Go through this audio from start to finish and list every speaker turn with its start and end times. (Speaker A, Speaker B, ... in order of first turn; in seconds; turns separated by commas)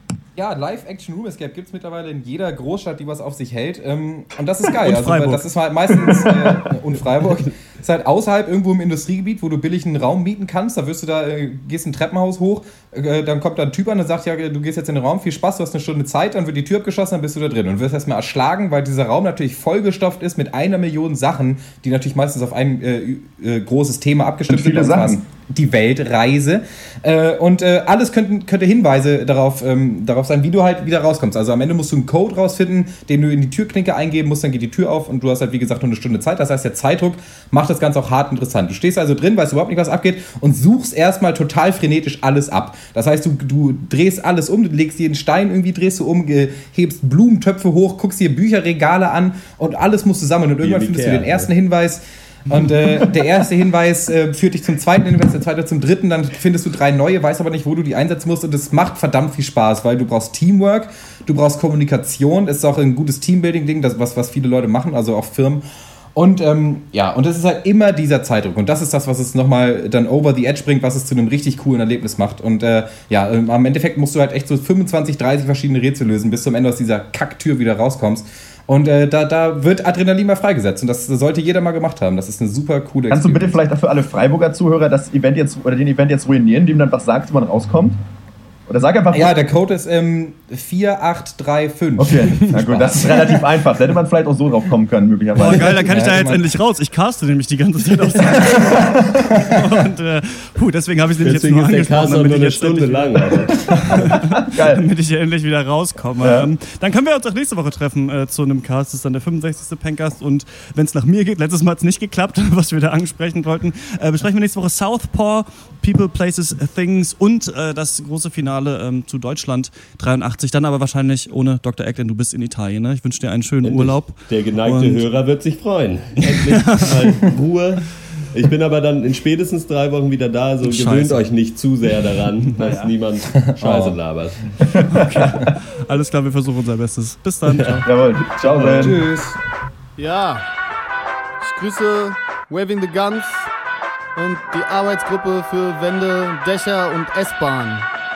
Speaker A: 0.3-65.6, Speaker B: 4.8-5.4, Speaker C: 5.9-6.5, Speaker C: 24.5-25.2, Speaker D: 50.6-51.5, Speaker A: 66.1-83.6, Speaker C: 83.1-88.0, Speaker C: 88.7-89.3, Speaker A: 89.1-93.2, Speaker C: 92.0-95.8, Speaker B: 95.3-103.3, Speaker A: 95.8-96.5, Speaker D: 101.2-103.8, Speaker C: 103.8-104.8, Speaker B: 104.0-125.0, Speaker C: 106.2-106.5, Speaker D: 123.6-134.4, Speaker B: 126.3-126.9, Speaker B: 130.6-131.2, Speaker A: 133.6-133.9, Speaker B: 134.9-137.9, Speaker C: 137.8-139.0, Speaker A: 138.5-139.4, Speaker E: 140.0-140.4, Speaker E: 141.4-143.5, Speaker E: 144.2-147.8